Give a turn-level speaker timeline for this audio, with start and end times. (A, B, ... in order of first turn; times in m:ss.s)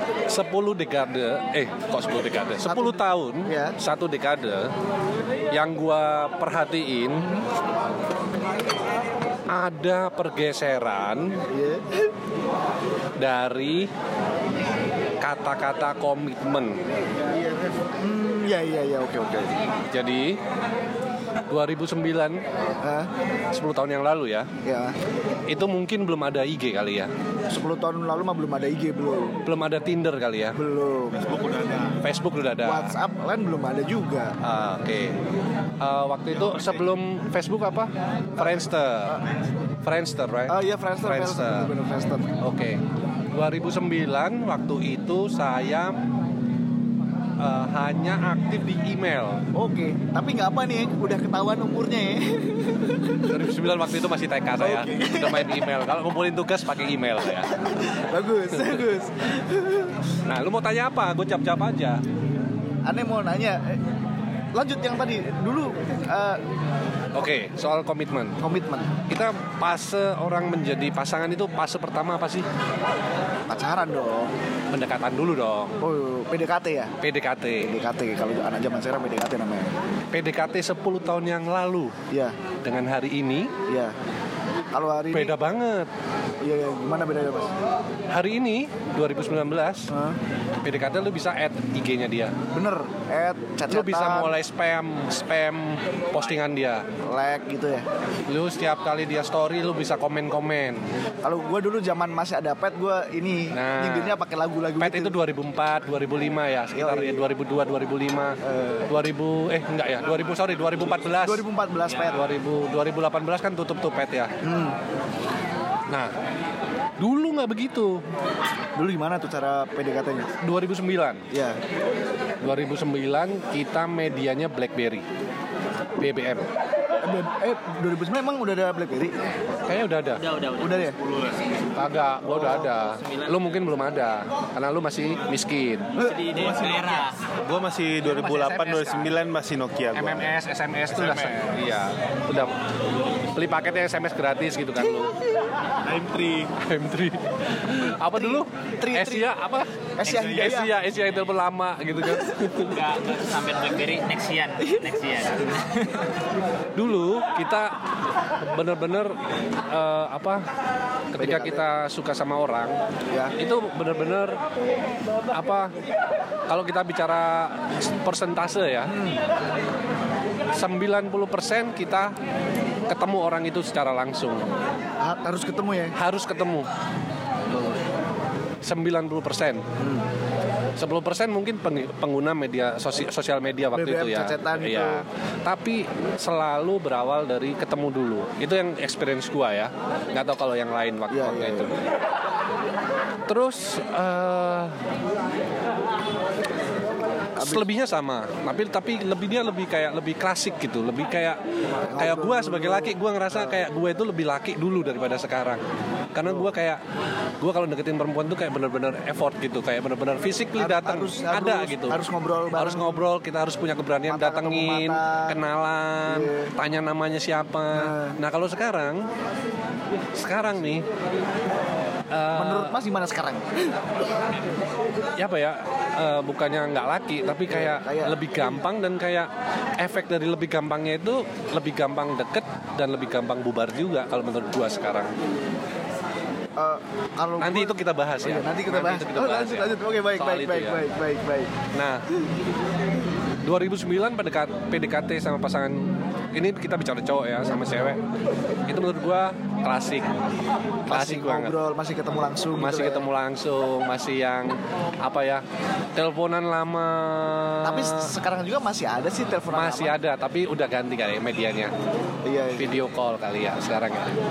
0:00.3-0:04.7 A
0:02.6-0:03.8 B
0:05.5-0:07.3 A
0:09.5-0:11.4 A
0:11.5-0:12.1 B
0:13.2-0:13.9 A
0:15.2-0:16.8 A
0:18.0-0:19.6 B
0:19.9-0:20.4 A
0:21.5-0:22.4 A
0:22.8-0:23.1 B
0:23.5-0:24.5 A
0:24.6-0:25.0 B
0:25.5-0:27.1 A
0:27.5-0:29.4 B
0:29.4-0:30.6 A
0:30.6-0:31.4 B
0:31.2-0:32.0 C
0:32.0-0:33.0 A
0:32.6-0:34.4 B
0:34.4-0:35.2 A
0:35.8-0:39.2 A
0:38.4-0:39.2 B
0:39.8-0:41.7 A
0:40.5-0:42.3 B
0:42.4-0:46.0 A
0:47.4-0:49.4 A
0:49.5-0:53.5 B
0:53.1-0:57.6 A
0:54.6-0:55.7 B
0:57.4-1:00.0 B
0:58.6-0:58.8 A
1:00.3-1:02.0 A
1:02.8-1:03.8 B
1:04.5-1:06.4 B
1:07.2-1:08.4 A
1:08.4-1:08.9 B
1:09.1-1:12.5 A
1:13.5-1:14.3 B
1:14.7-1:15.7 A
1:15.8-1:16.9 B
1:17.0-1:17.7 A
1:17.6-1:19.7 B
1:20.1-1:22.0 A
1:22.1-1:22.4 B
1:22.6-1:23.5 A
1:23.7-1:24.0 B
1:24.7-1:25.3 B
1:25.1-1:25.9 A
1:26.4-1:27.5 B
1:28.1-1:29.9 A
1:29.9-1:30.2 B
1:30.6-1:32.4 A
1:32.5-1:34.4 B
1:33.7-1:36.8 A
1:37.0-1:37.9 B
1:38.3-1:40.8 A
1:41.2-1:45.2 B
1:43.5-1:44.2 A
1:44.8-1:48.4 A
1:46.7-1:47.2 B
1:48.4-1:48.9 B
1:48.9-1:51.4 A
1:51.1-1:52.3 B
1:52.1-1:54.3 A
1:54.4-1:54.8 B
1:57.0-1:58.0 A
1:58.8-2:00.3 B
2:00.4-2:01.2 A
2:01.3-2:01.6 B
2:02.4-2:05.1 A
2:06.0-2:06.5 A
2:07.0-2:09.2 B
2:09.7-2:10.2 A
2:10.2-2:11.6 D
2:10.6-2:11.0 B
2:11.7-2:15.9 A
2:12.2-2:12.7 B
2:12.8-2:13.3 D
2:16.0-2:17.2 D
2:16.3-2:20.3 C
2:18.0-2:19.1 D
2:19.9-2:22.5 A
2:20.9-2:21.5 C
2:23.3-2:25.1 A
2:24.8-2:25.1 B
2:25.8-2:26.5 C
2:26.6-2:32.7 A
2:28.1-2:29.3 B
2:30.0-2:30.7 B
2:32.6-2:36.0 D
2:36.8-2:37.8 A
2:38.4-2:39.2 A
2:39.7-2:40.5 A
2:41.1-2:42.8 A
2:41.2-2:41.6 B
2:43.4-2:44.4 A
2:45.3-2:45.7 A
2:46.5-2:49.0 A
2:48.9-2:49.2 B
2:50.5-2:52.2 A
2:52.9-2:54.5 A
2:55.0-2:56.0 B
2:56.0-2:56.7 A
2:58.6-2:59.7 A
2:59.8-3:00.1 B
3:00.8-3:11.7 A
3:03.7-3:05.0 B
3:11.1-3:11.7 B
3:13.3-3:14.8 A
3:17.4-3:21.4 A
3:17.4-3:17.6 B
3:21.9-3:23.6 B
3:22.0-3:25.6 A
3:26.1-3:26.8 A
3:27.4-3:32.0 A
3:30.6-3:33.0 B
3:32.6-3:39.1 A
3:34.1-3:35.4 B
3:36.1-3:36.5 B
3:37.7-3:38.2 B
3:40.2-3:40.8 A
3:42.1-3:42.7 A
3:42.4-3:43.5 B
3:45.2-3:55.1 A
3:47.5-3:48.6 B
3:56.6-4:01.5 B
3:57.4-4:00.8 A
4:01.7-4:02.0 A
4:03.4-4:08.0 A
4:08.7-4:10.2 A
4:10.9-4:13.1 B
4:10.9-4:11.6 A
4:12.6-4:15.4 A
4:16.0-4:18.1 A
4:17.6-4:20.0 B
4:19.5-4:21.7 A
4:22.2-4:22.8 B
4:22.6-4:24.1 A